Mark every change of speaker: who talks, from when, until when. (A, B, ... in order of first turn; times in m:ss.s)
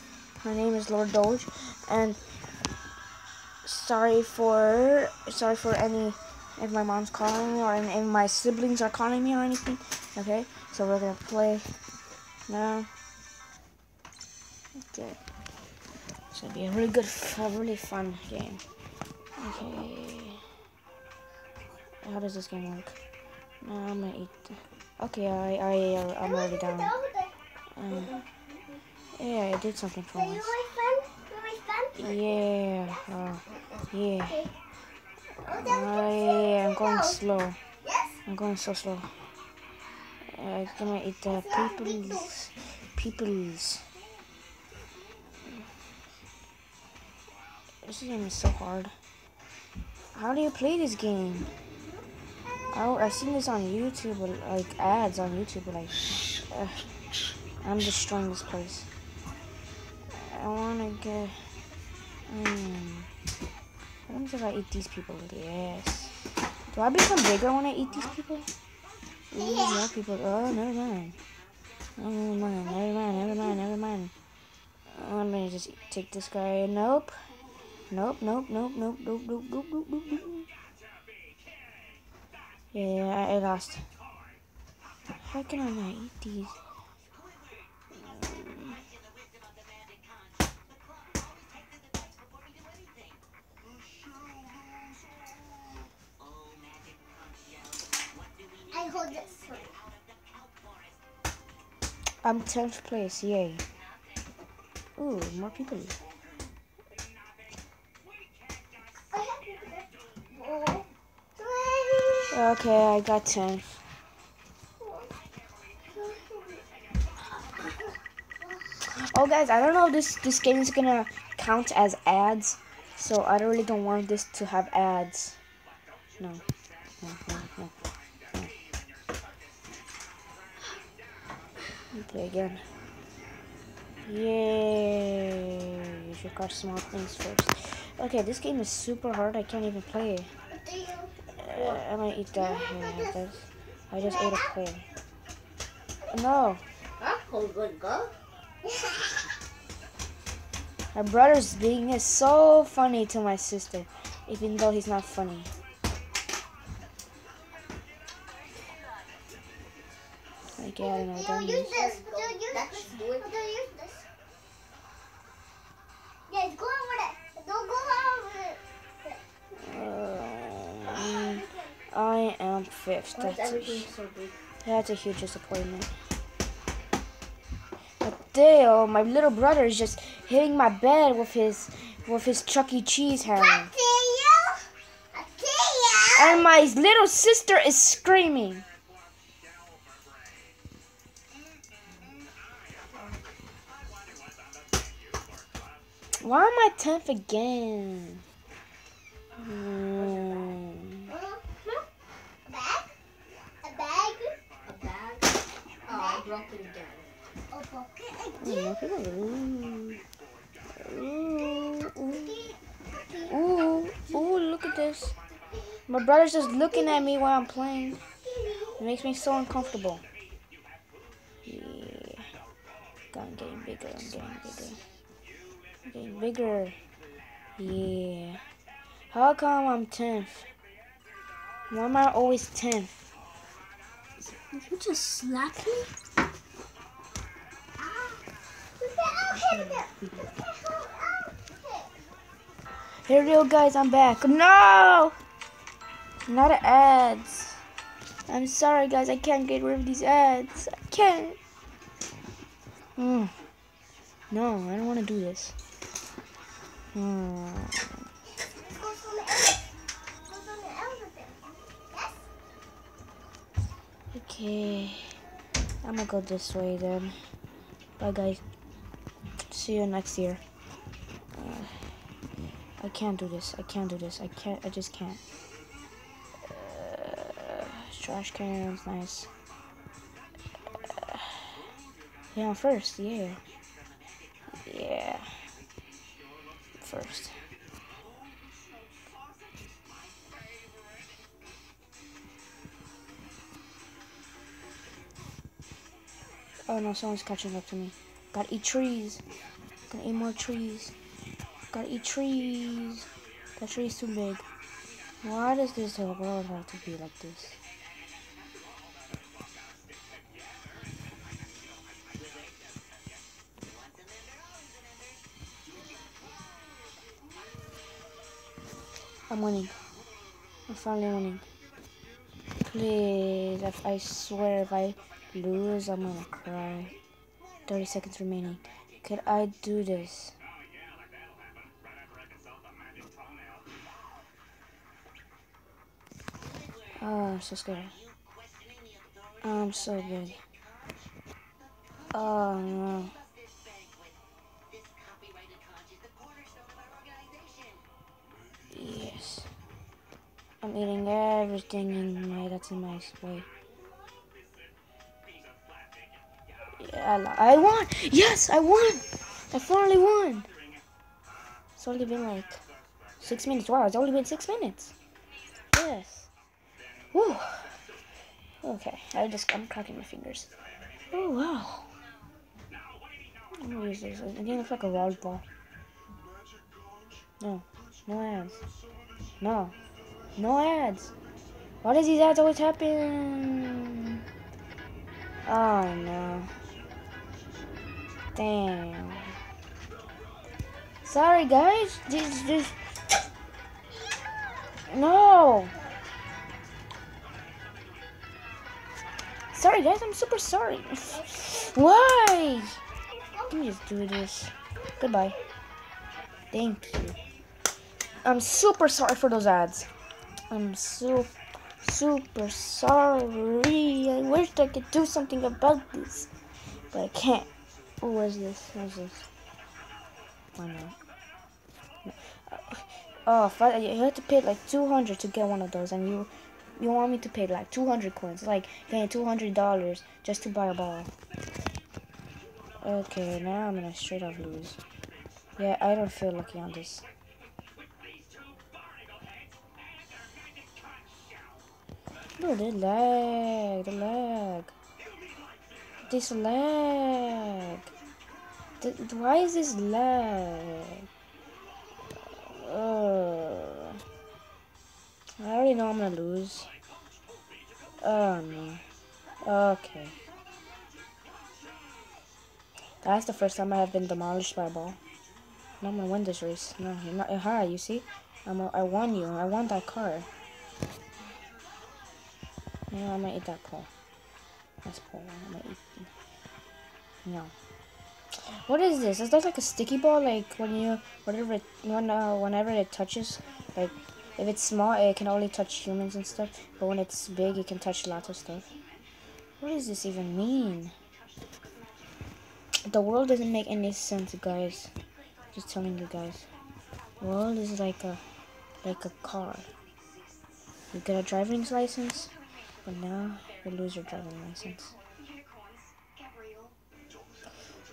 0:00.4-0:02.2 A
0:03.6-0:11.7 A
0:12.5-0:12.9 A
0:14.9-0:15.2 A
0:16.3-0:18.6 A
0:19.4-0:20.5 A
0:22.0-0:23.0 A
0:23.6-0:26.9 A
0:26.2-0:27.3 B
0:27.7-0:28.2 A
0:29.2-0:30.6 A
0:30.1-0:32.3 B
0:32.0-0:34.5 A
0:35.4-0:37.6 A
0:35.4-0:37.2 B
0:37.8-0:38.2 B
0:38.3-0:39.2 A
0:40.2-0:43.8 A
0:41.3-0:42.3 B
0:47.8-0:48.9 A
0:50.1-0:51.5 A
0:52.7-0:56.9 A
0:57.6-0:58.9 A
1:00.1-1:01.4 A
1:02.3-1:03.1 A
1:04.1-1:08.5 A
1:09.3-1:11.2 A
1:09.4-1:09.8 B
1:12.0-1:14.1 A
1:14.9-1:17.2 A
1:17.9-1:20.5 A
1:22.7-1:23.9 A
1:25.2-1:26.6 A
1:27.9-1:28.9 A
1:38.7-1:39.8 B
1:42.2-1:43.6 A
1:45.0-1:46.0 A
1:49.1-1:52.4 B
1:52.3-1:53.7 A
1:54.8-1:55.1 B
1:55.9-1:56.6 B
1:57.4-1:57.8 B
1:58.8-2:05.4 A
2:07.0-2:07.7 A
2:11.9-2:12.7 A
2:14.0-2:20.3 A
2:20.5-2:21.8 B
2:21.3-2:24.8 A
2:22.4-2:23.2 B
2:24.0-2:24.5 B
2:26.1-2:26.6 A
2:27.0-2:28.1 C
2:28.6-2:29.3 B
2:30.9-2:35.5 A
2:40.5-2:41.8 A
2:40.8-2:44.1 B
2:41.7-2:43.3 C
2:46.3-2:49.2 B
2:49.5-2:53.9 A
2:50.9-2:51.7 B
2:53.2-2:54.4 C
2:54.6-2:55.9 A
2:58.0-3:03.7 A
3:03.3-3:06.4 B
3:06.1-3:08.6 A
3:16.2-3:18.2 A
3:19.4-3:21.1 A
3:20.0-3:20.5 C
3:21.1-3:21.9 B
3:22.5-3:22.9 B
3:23.6-3:24.4 B
3:24.7-3:27.1 C
3:25.9-3:26.3 B
3:27.5-3:28.8 B
3:28.4-3:30.0 A
3:30.7-3:32.4 A
3:32.1-3:33.4 B
3:33.3-3:35.1 A
3:35.5-3:35.8 B
3:35.9-3:38.0 A
3:36.6-3:37.1 B
3:38.1-3:39.6 B
3:38.8-3:40.0 A
3:41.4-3:42.3 A
3:43.1-3:44.8 A
3:45.8-3:46.8 A
3:47.6-3:48.4 A
3:49.1-3:50.5 A
3:51.7-3:52.9 A
3:54.5-3:55.9 C
3:57.8-3:58.2 B
3:58.8-4:01.9 B
3:59.3-4:00.2 C
4:03.1-4:05.1 A
4:06.2-4:07.6 A
4:08.3-4:11.4 A
4:13.0-4:13.4 A
4:14.3-4:15.6 A
4:16.9-4:18.0 A
4:18.6-4:19.7 B
4:20.2-4:22.3 B
4:24.1-4:25.2 A
4:25.8-4:27.2 A
4:28.0-4:28.4 A
4:29.5-4:30.4 A
4:31.3-4:32.0 A
4:32.8-4:35.2 A
4:36.4-4:39.3 A
4:40.8-4:41.6 A
4:42.3-4:43.4 A
4:44.6-4:45.5 A
4:46.8-4:47.4 A
4:56.7-4:59.2 A
4:59.9-5:01.0 A
5:01.7-5:04.4 A
5:05.2-5:07.6 A
5:19.3-5:19.8 A
5:20.7-5:21.4 A
5:22.6-5:27.0 A
5:27.7-5:30.4 A
5:37.0-5:38.0 A
5:39.4-5:40.4 A
5:42.1-5:43.2 A
5:48.7-5:49.5 A
5:50.6-5:53.5 A
5:56.8-6:00.5 A
6:01.8-6:02.6 A
6:03.2-6:04.9 A
6:05.7-6:06.3 A
6:07.1-6:07.8 A
6:08.6-6:10.5 A
6:11.1-6:11.9 A
6:13.6-6:15.4 A
6:17.4-6:18.6 A
6:19.4-6:19.8 A
6:20.4-6:21.1 A
6:21.8-6:24.2 A
6:25.4-6:26.5 A
6:28.4-6:29.4 A
6:31.0-6:32.9 A
6:34.9-6:35.8 A
6:39.5-6:42.8 A
6:41.1-6:41.5 B
6:43.5-6:45.4 A
6:46.5-6:47.2 A
6:48.2-6:49.9 A
6:50.5-6:56.3 A
6:56.9-6:57.5 A
6:58.0-6:59.3 A
7:00.6-7:01.0 A
7:02.1-7:11.1 A
7:12.8-7:14.8 A
7:15.6-7:17.0 A
7:22.4-7:24.7 A
7:26.1-7:27.9 A
7:28.8-7:31.1 A
7:32.2-7:34.0 A
7:35.4-7:36.7 A
7:38.0-7:38.8 A
7:39.4-7:40.2 A
7:43.0-7:45.0 A
7:45.8-7:50.3 A
7:52.9-7:53.9 A
7:54.8-7:56.1 A
7:57.2-7:57.5 A
7:58.3-8:08.7 A
8:09.6-8:10.9 A
8:12.9-8:14.9 A
8:15.5-8:16.5 A
8:17.2-8:18.2 A
8:18.8-8:19.7 A
8:20.9-8:22.3 A
8:22.8-8:25.0 A